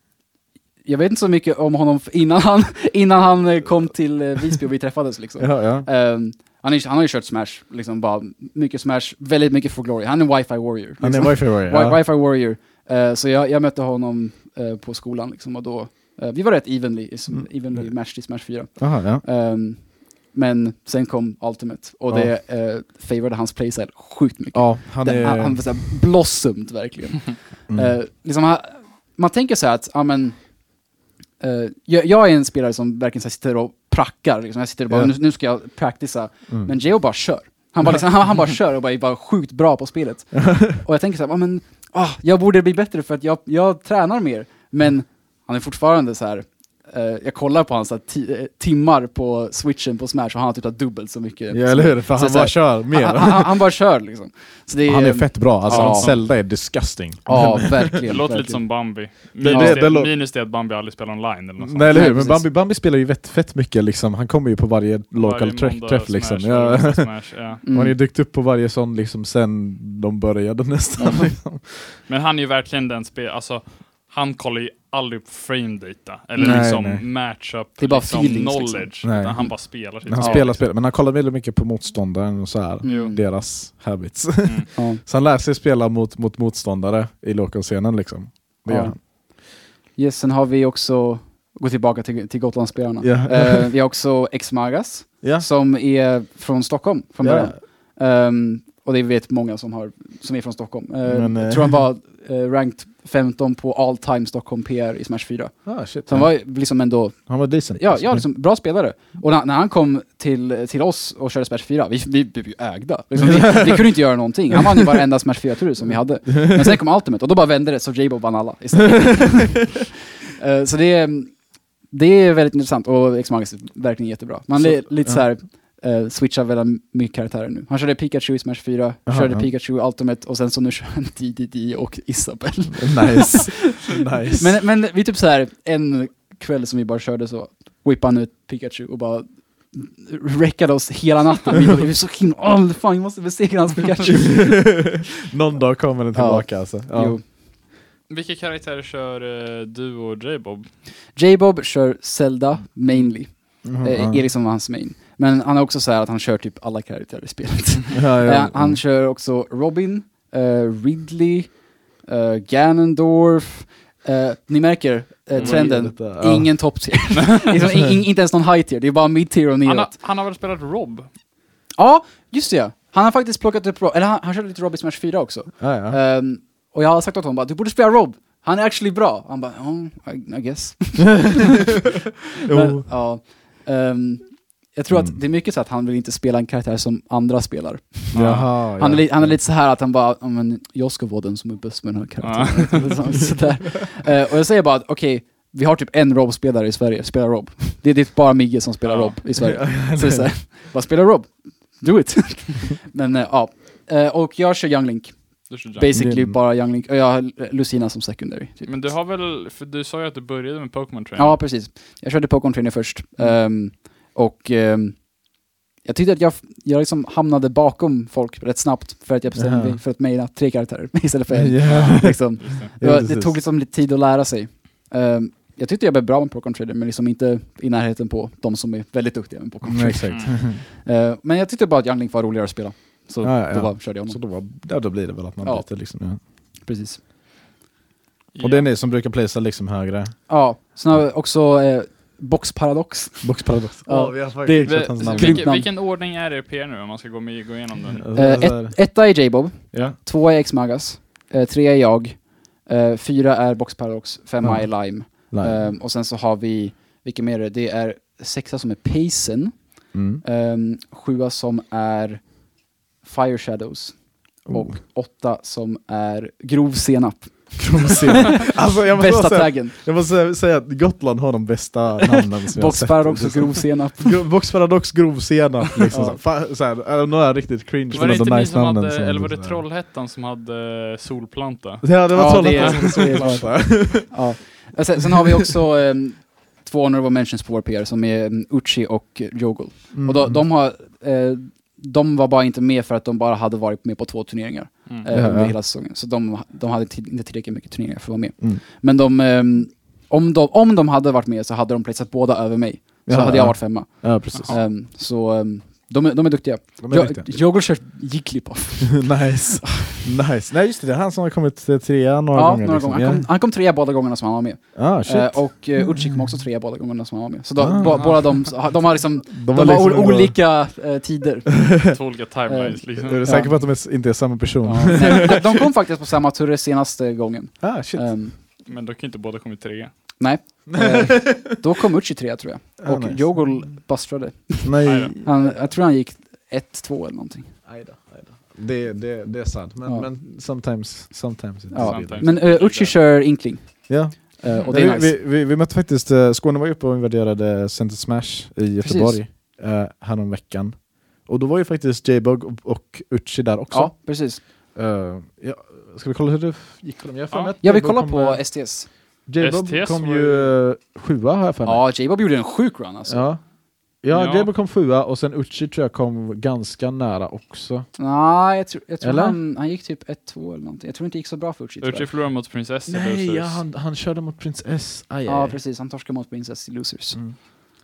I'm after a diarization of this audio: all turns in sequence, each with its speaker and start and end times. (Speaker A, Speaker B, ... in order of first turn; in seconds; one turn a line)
Speaker A: 0.8-30.8
Speaker B: 5.4-5.9
Speaker B: 11.0-12.0
Speaker B: 17.3-19.2
Speaker B: 22.1-22.3
Speaker B: 24.5-25.9
Speaker B: 27.7-28.0
Speaker A: 31.4-56.7
Speaker B: 34.9-35.1
Speaker B: 36.5-36.8
Speaker B: 40.4-40.8
Speaker B: 51.5-53.6
Speaker B: 54.9-58.2
Speaker C: 55.7-56.3
Speaker A: 57.3-59.9
Speaker C: 57.4-62.1
Speaker B: 59.4-60.1
Speaker B: 61.6-72.0
Speaker A: 61.9-62.5
Speaker C: 65.1-67.6
Speaker A: 67.6-68.0
Speaker C: 72.1-80.7
Speaker A: 76.3-77.1
Speaker B: 76.4-77.1
Speaker A: 77.8-79.6
Speaker B: 79.0-89.0
Speaker A: 80.1-80.5
Speaker A: 82.8-83.2
Speaker C: 82.8-83.2
Speaker A: 84.8-85.0
Speaker A: 88.7-145.0
Speaker B: 93.0-93.7
Speaker B: 95.2-95.5
Speaker B: 97.2-97.6
Speaker B: 101.1-101.8
Speaker B: 105.7-106.7
Speaker B: 107.3-108.3
Speaker B: 113.1-114.0
Speaker B: 124.6-125.3
Speaker B: 129.1-129.5
Speaker B: 132.7-134.6
Speaker B: 144.1-147.2
Speaker A: 146.1-147.3
Speaker C: 148.1-150.7
Speaker A: 151.2-170.0
Speaker C: 152.9-153.2
Speaker B: 153.6-154.3
Speaker B: 157.9-158.8
Speaker B: 165.3-166.8
Speaker C: 165.4-165.8
Speaker C: 169.6-171.1
Speaker A: 171.8-208.9
Speaker B: 175.6-176.0
Speaker B: 182.4-182.8
Speaker B: 184.9-185.2
Speaker B: 188.1-189.4
Speaker C: 188.1-188.5
Speaker C: 192.2-193.2
Speaker C: 198.8-199.2
Speaker B: 199.4-200.4
Speaker C: 205.5-205.9
Speaker B: 205.9-206.4
Speaker C: 208.7-211.4
Speaker A: 211.2-234.4
Speaker B: 219.3-219.8
Speaker B: 221.3-223.4
Speaker C: 221.6-222.7
Speaker B: 229.7-230.6
Speaker C: 230.1-230.3
Speaker B: 233.2-236.2
Speaker A: 235.4-237.0
Speaker C: 238.3-238.7
Speaker B: 238.4-240.3
Speaker A: 240.3-245.7
Speaker B: 243.2-245.5
Speaker C: 244.6-248.1
Speaker B: 248.0-248.8
Speaker A: 248.2-269.8
Speaker B: 249.7-250.0
Speaker B: 254.4-255.7
Speaker B: 259.9-260.2
Speaker B: 264.5-264.8
Speaker B: 267.6-279.6
Speaker A: 272.1-274.2
Speaker A: 275.9-276.2
Speaker C: 277.9-283.4
Speaker A: 277.9-278.3
Speaker B: 281.8-284.3
Speaker A: 282.1-310.1
Speaker B: 289.9-290.5
Speaker B: 295.1-295.6
Speaker B: 303.1-304.6
Speaker C: 304.3-304.6
Speaker B: 306.8-307.3
Speaker B: 308.9-313.3
Speaker A: 312.3-321.9
Speaker B: 314.8-316.4
Speaker B: 317.6-320.4
Speaker C: 317.9-318.4
Speaker C: 321.9-323.4
Speaker A: 322.5-324.1
Speaker B: 323.0-325.4
Speaker A: 324.6-328.4
Speaker B: 327.6-328.2
Speaker C: 328.6-330.2
Speaker A: 330.2-337.7
Speaker B: 330.7-331.6
Speaker B: 332.8-333.7
Speaker B: 334.6-335.6
Speaker C: 334.8-335.2
Speaker B: 337.6-342.3
Speaker A: 339.8-340.1
Speaker A: 341.7-345.2
Speaker C: 341.7-343.0
Speaker B: 343.9-361.9
Speaker C: 344.5-344.9
Speaker A: 348.8-349.2
Speaker A: 353.7-354.4
Speaker C: 357.3-357.6
Speaker A: 357.6-358.9
Speaker C: 359.4-360.6
Speaker A: 361.6-363.5
Speaker B: 363.1-367.9
Speaker C: 364.1-364.5
Speaker A: 368.0-372.1
Speaker B: 369.0-369.4
Speaker C: 371.8-373.6
Speaker B: 372.9-375.6
Speaker A: 375.3-377.2